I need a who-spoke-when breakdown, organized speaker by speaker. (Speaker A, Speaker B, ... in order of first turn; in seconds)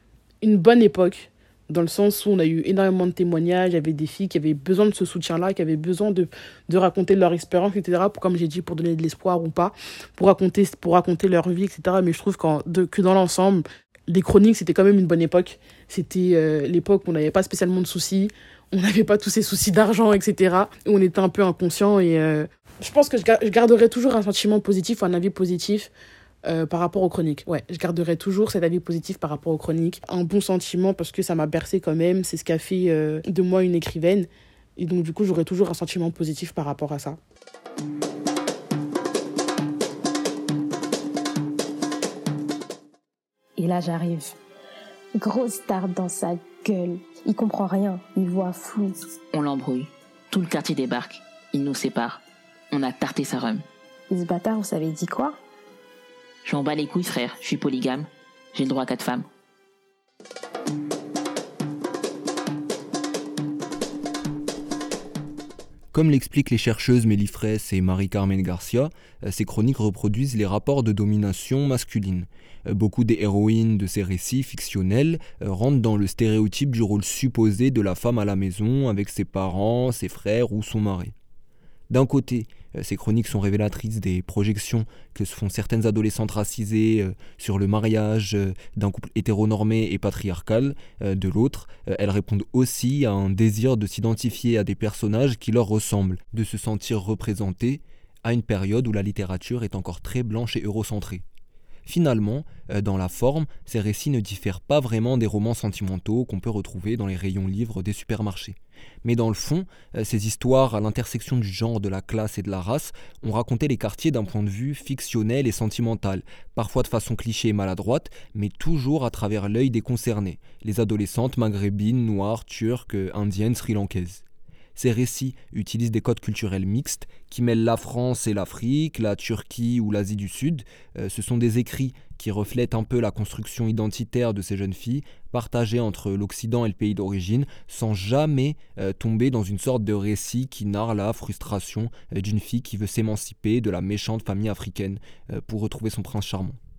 Speaker A: 0.4-25.9, 26.4-37.2
Speaker B: 43.6-44.4, 45.1-49.1, 54.1-55.4
Speaker C: 49.3-53.6, 56.4-59.3
Speaker D: 65.9-81.1, 81.9-101.2, 101.9-124.2, 124.8-146.6